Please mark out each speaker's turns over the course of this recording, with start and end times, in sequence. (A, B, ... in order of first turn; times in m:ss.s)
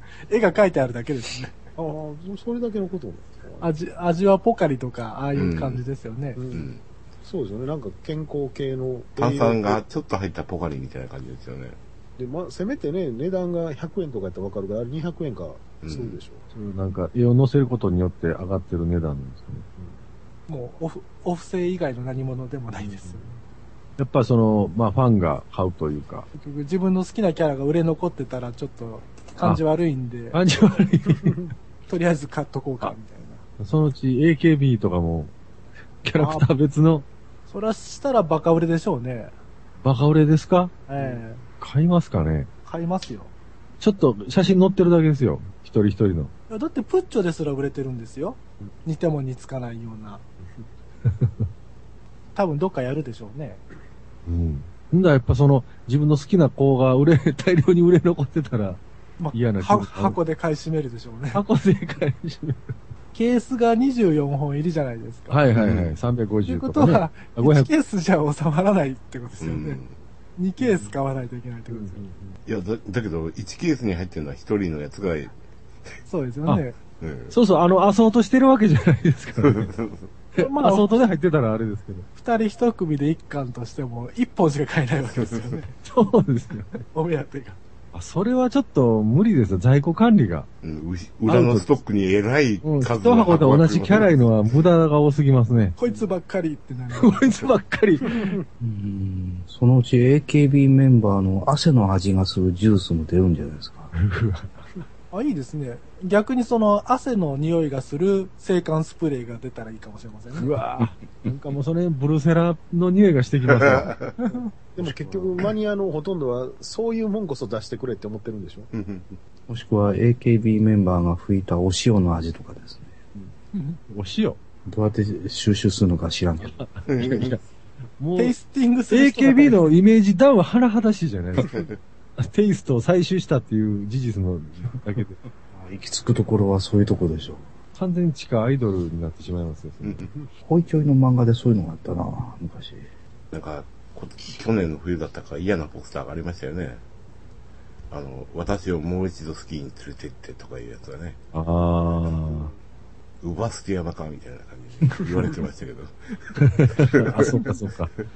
0:00.3-0:01.6 A
0:01.8-0:03.8 B
0:03.6-0:06.4 A
0:05.4-0:05.8 C
0:06.4-0:09.8 B
0:06.5-0:06.8 C
0:09.2-0:11.8 C
0:12.2-0:16.4 B
0:15.8-0:16.2 C
0:16.5-0:19.7 D
0:20.5-0:23.3 A
0:24.0-0:26.3 D
0:26.3-0:30.4 A
0:30.3-0:31.4 D
0:31.9-0:33.4 A
0:33.6-0:35.3 D
0:36.0-0:37.0 D
0:36.2-0:36.5 A
0:37.5-0:39.4 A
0:39.8-0:40.8 D
0:40.9-0:41.4 A
0:41.6-0:42.5 D
0:42.6-0:43.3 A
0:43.8-0:46.3 D
0:46.5-0:50.2 A
0:51.1-0:51.4 D
0:52.4-0:53.6 A
0:54.3-0:58.8 D
0:59.2-1:01.4 A
0:59.3-1:00.2 D
1:01.3-1:02.7 D
1:03.1-1:05.4 A
1:05.3-1:07.7 D
1:05.6-1:05.9 C
1:06.5-1:09.8 A
1:09.4-1:09.9 C
1:10.4-1:12.0 A
1:10.6-1:10.9 B
1:11.7-1:12.4 B
1:12.5-1:15.4 C
1:16.1-1:16.8 A
1:17.0-1:17.3 C
1:17.3-1:19.7 D
1:19.4-1:20.1 C
1:20.4-1:20.9 A
1:20.4-1:22.1 D
1:22.2-1:25.8 A
1:25.2-1:25.5 C
1:25.8-1:26.8 D
1:26.8-1:27.6 A
1:27.9-1:30.5 D
1:30.6-1:34.1 C
1:31.3-1:31.7 D
1:32.6-1:35.8 D
1:35.8-1:37.6 A
1:36.9-1:38.4 D
1:38.6-1:43.9 E
1:44.0-1:44.5 D
1:45.1-1:50.6 A
1:50.4-1:54.0 D
1:53.5-1:54.2 C
1:54.2-1:54.5 A
1:54.7-1:58.7 B
1:54.8-1:55.3 D
1:58.7-1:59.2 C
1:59.5-2:03.0 E
2:03.5-2:03.8 A
2:03.9-2:04.4 D
2:04.7-2:06.6 E
2:06.5-2:07.4 D
2:06.9-2:07.4 C
2:08.0-2:08.4 D
2:08.2-2:09.7 A
2:08.9-2:11.6 D
2:11.4-2:11.8 C
2:12.2-2:15.2 D
2:15.5-2:17.4 E
2:17.8-2:20.1 D
2:19.8-2:20.1 C
2:20.4-2:22.9 E
2:23.3-2:26.8 C
2:27.9-2:31.2 C
2:31.3-2:32.5 D
2:31.9-2:32.6 B
2:33.2-2:37.1 C
2:36.4-2:37.9 D